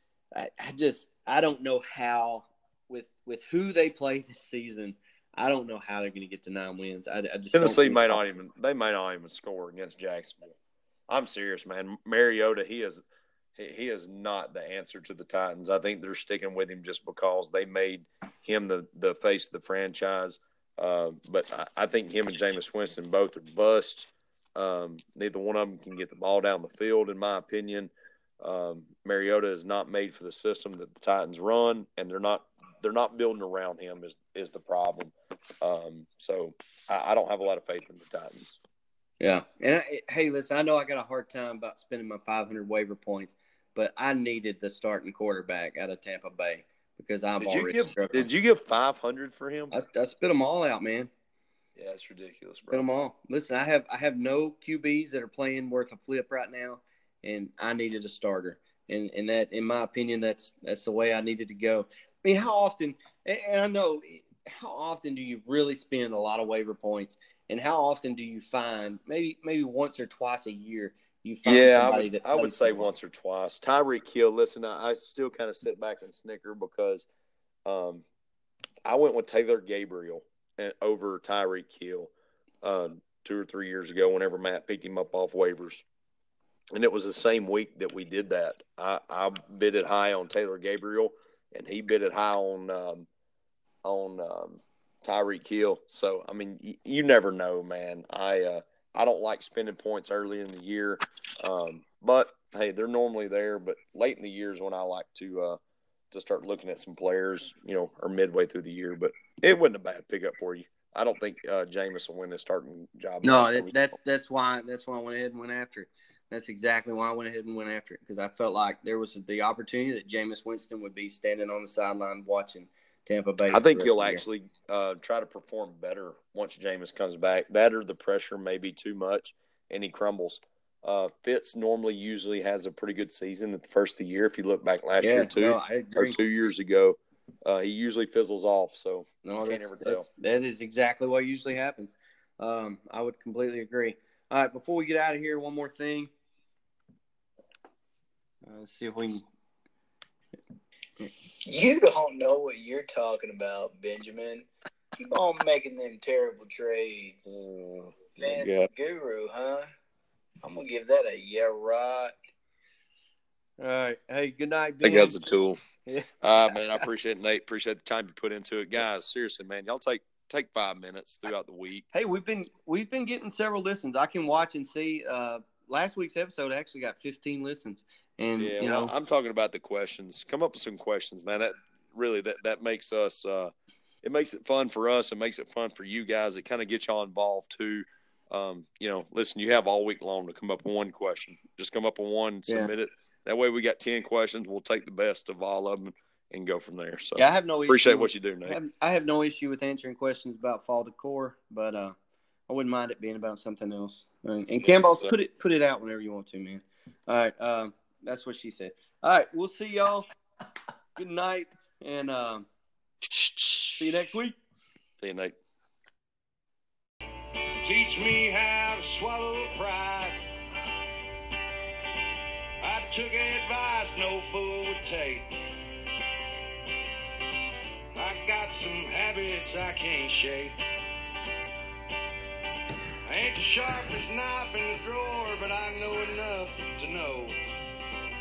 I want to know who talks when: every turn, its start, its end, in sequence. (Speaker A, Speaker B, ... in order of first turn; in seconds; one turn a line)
Speaker A: 0.3-8.2
Speaker B: 7.5-10.6
Speaker B: 11.1-13.0
Speaker B: 13.6-38.6
Speaker A: 39.2-48.3
Speaker B: 47.4-49.8
Speaker A: 49.7-51.1
Speaker B: 51.8-52.9
Speaker A: 52.7-72.9
Speaker B: 71.4-77.1
Speaker B: 77.6-78.0
Speaker B: 78.8-82.1
Speaker B: 82.6-85.8
Speaker B: 86.7-93.1
Speaker B: 93.8-105.6
Speaker B: 106.1-113.7
Speaker A: 113.2-124.2
Speaker B: 123.5-140.1
Speaker A: 135.0-136.2
Speaker A: 139.2-146.1
Speaker A: 148.4-149.2
Speaker C: 151.4-154.4
Speaker C: 155.0-157.4
Speaker B: 157.3-158.7
Speaker C: 158.1-159.7
Speaker C: 160.4-162.1
Speaker A: 163.6-165.2
Speaker B: 164.8-165.6
Speaker A: 165.8-166.1
Speaker B: 166.2-171.8
Speaker A: 171.9-178.9
Speaker B: 178.4-198.6
Speaker A: 197.2-201.9
Speaker A: 202.5-210.1
Speaker B: 204.7-205.1
Speaker A: 211.0-212.5
Speaker B: 213.2-213.5
Speaker A: 213.8-214.4
Speaker B: 215.0-215.4
Speaker D: 217.6-220.2
Speaker D: 222.6-225.3
Speaker D: 227.9-230.6
Speaker D: 233.1-237.3